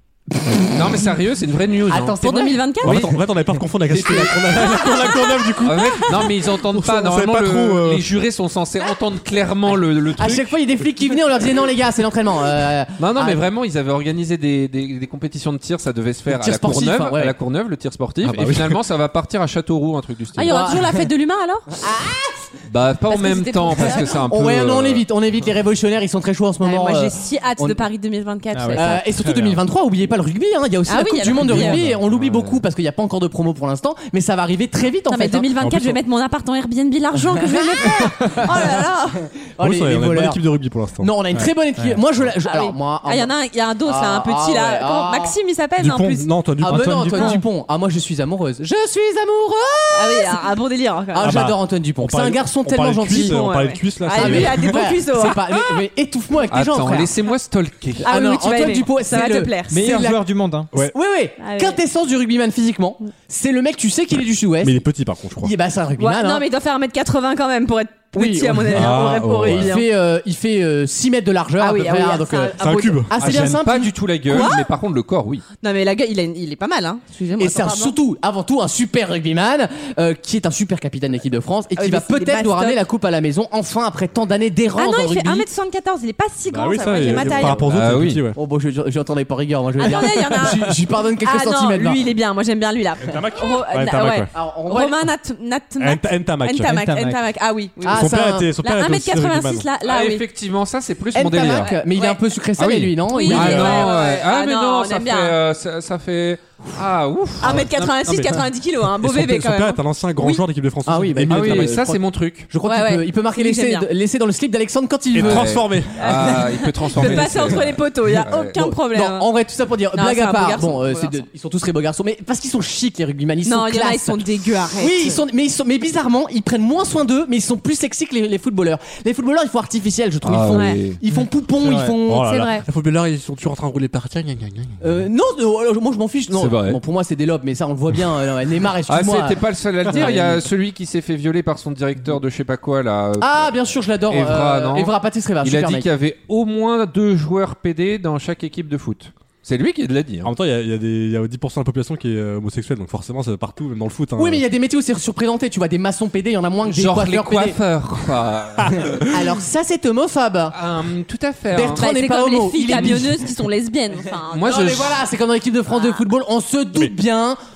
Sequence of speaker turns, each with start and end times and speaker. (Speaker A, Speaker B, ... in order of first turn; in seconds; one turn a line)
Speaker A: 0.7-2.3
Speaker B: 1.9-3.2
Speaker C: 2.2-3.1
Speaker D: 2.8-8.1
Speaker A: 3.9-4.3
Speaker C: 4.6-6.1
Speaker A: 5.6-10.5
Speaker B: 10.2-13.4
Speaker A: 13.0-20.6
Speaker B: 16.3-17.3
Speaker D: 18.2-18.8
Speaker C: 20.4-21.8
Speaker B: 20.4-21.1
Speaker B: 21.8-22.5
Speaker A: 22.7-25.1
Speaker C: 23.1-24.1
Speaker B: 23.7-27.8
Speaker C: 26.6-29.1
Speaker E: 28.5-29.6
Speaker B: 28.8-35.5
Speaker C: 30.9-31.8
Speaker D: 31.5-32.0
Speaker A: 32.1-32.6
Speaker C: 35.1-39.3
Speaker D: 35.6-36.0
Speaker B: 37.3-40.4
Speaker D: 39.6-41.1
Speaker B: 41.0-45.4
Speaker E: 41.3-42.0
Speaker C: 42.4-47.4
Speaker D: 45.8-47.4
Speaker B: 46.6-50.5
Speaker C: 49.9-51.4
Speaker B: 51.1-53.5
Speaker D: 51.2-54.9
Speaker C: 53.1-55.8
Speaker B: 54.1-57.1
Speaker A: 56.5-58.1
Speaker C: 58.0-59.8
Speaker B: 58.0-60.2
Speaker E: 59.7-60.7
Speaker B: 60.8-64.8
Speaker C: 61.4-61.8
Speaker D: 64.6-65.5
Speaker B: 65.4-66.5
Speaker C: 66.0-69.9
Speaker B: 68.2-74.5
Speaker D: 68.7-69.8
Speaker C: 71.6-73.1
Speaker D: 72.6-73.6
Speaker A: 73.2-75.5
Speaker C: 74.3-74.7
Speaker C: 75.6-78.0
Speaker B: 77.4-85.5
Speaker C: 81.8-82.8
Speaker C: 84.8-87.7
Speaker D: 86.5-88.4
Speaker B: 86.8-92.0
Speaker A: 87.7-88.2
Speaker C: 89.8-100.2
Speaker D: 93.0-94.3
Speaker B: 94.3-95.0
Speaker D: 95.8-96.7
Speaker E: 96.6-97.2
Speaker B: 97.8-98.5
Speaker D: 97.9-99.7
Speaker A: 99.8-101.7
Speaker B: 101.1-103.9
Speaker C: 101.3-102.2
Speaker A: 102.6-107.8
Speaker C: 103.1-105.4
Speaker D: 103.3-104.0
Speaker C: 107.4-110.4
Speaker D: 107.4-111.8
Speaker B: 110.9-117.8
Speaker A: 111.2-112.5
Speaker C: 112.6-113.9
Speaker D: 115.1-116.0
Speaker A: 115.2-118.6
Speaker C: 116.0-119.3
Speaker B: 118.5-132.3
Speaker C: 119.9-121.2
Speaker C: 123.5-125.2
Speaker A: 130.2-131.0
Speaker C: 130.5-130.9
Speaker D: 131.6-135.1
Speaker C: 132.2-132.6
Speaker B: 134.8-139.4
Speaker A: 136.3-136.8
Speaker A: 138.9-150.3
Speaker B: 139.9-140.4
Speaker B: 143.2-145.9
Speaker D: 150.2-154.4
Speaker B: 154.2-157.6
Speaker A: 156.7-159.0
Speaker B: 158.8-160.6
Speaker A: 160.5-161.8
Speaker B: 161.5-163.4
Speaker C: 161.8-164.8
Speaker A: 164.3-165.0
Speaker B: 164.4-167.4